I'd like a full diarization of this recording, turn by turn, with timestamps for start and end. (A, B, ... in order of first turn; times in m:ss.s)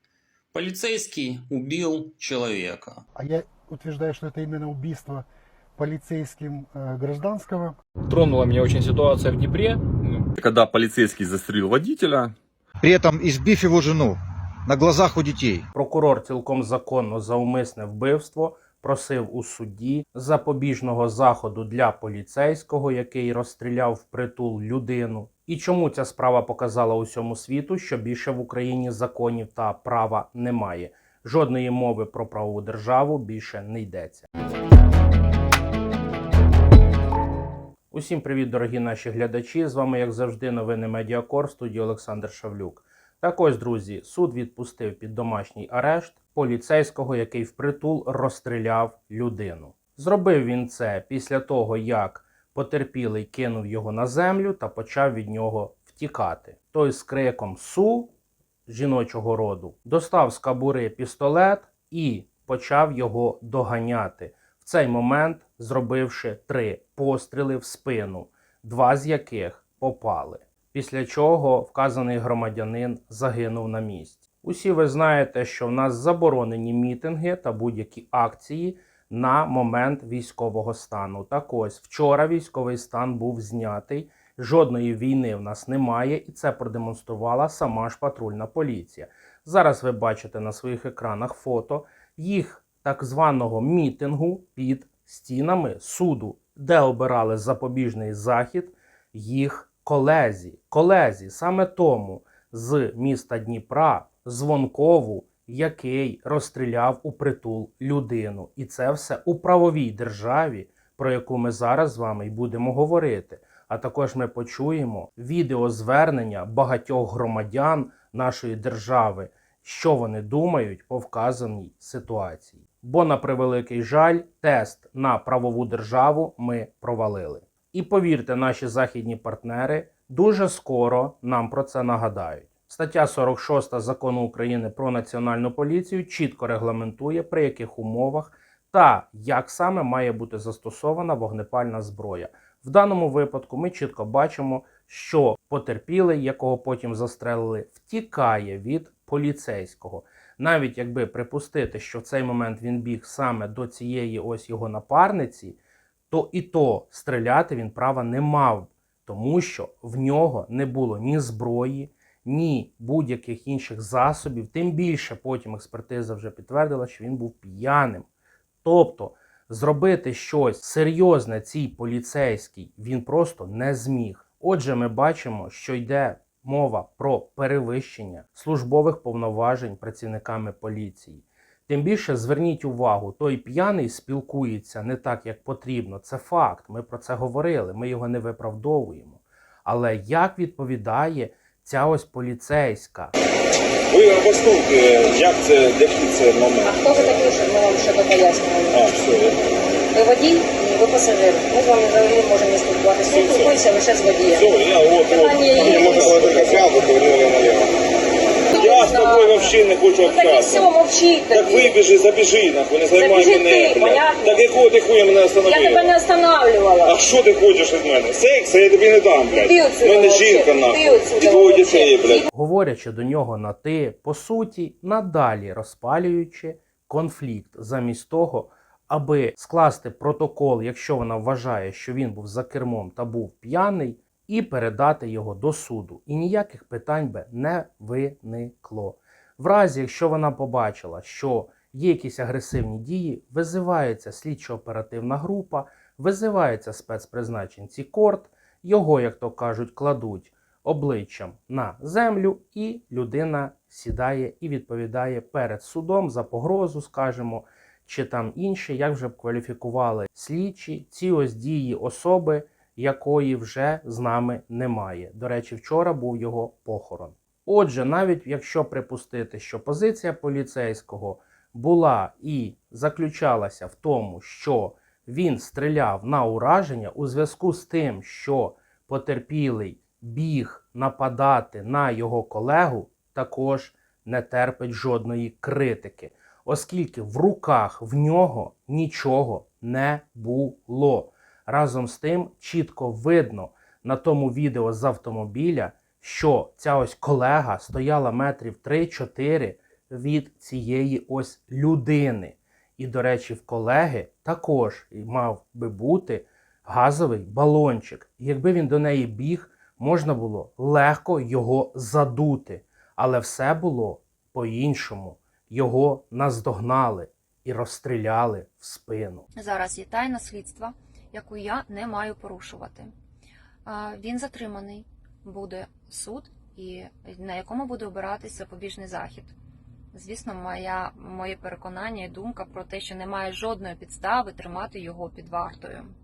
0:00.5-0:03.0 A
0:03.1-0:07.8 B
0:08.1-0:10.3 C
0:10.4-0:12.3 D
0:12.8-0:15.7 E
0:15.7-0:34.2 F
0:37.9-0:58.1 F
0:58.7-2:35.6 F
2:36.1-2:48.1 F
2:48.6-3:13.1 F
3:13.9-3:17.2 G
3:16.6-3:18.9 H
3:18.7-3:19.4 G
3:19.9-3:26.6 H
3:23.1-3:23.5 G
3:24.3-3:27.7 G
3:28.5-3:31.8 H
3:28.5-3:30.7 G
3:31.3-3:35.9 G
3:32.9-3:34.4 H
3:35.4-3:37.0 H
3:36.8-3:42.2 G
3:39.3-3:42.3 H
3:42.3-5:19.2 F
5:19.4-5:22.9 I
5:23.6-5:29.3 I
5:29.9-5:35.9 I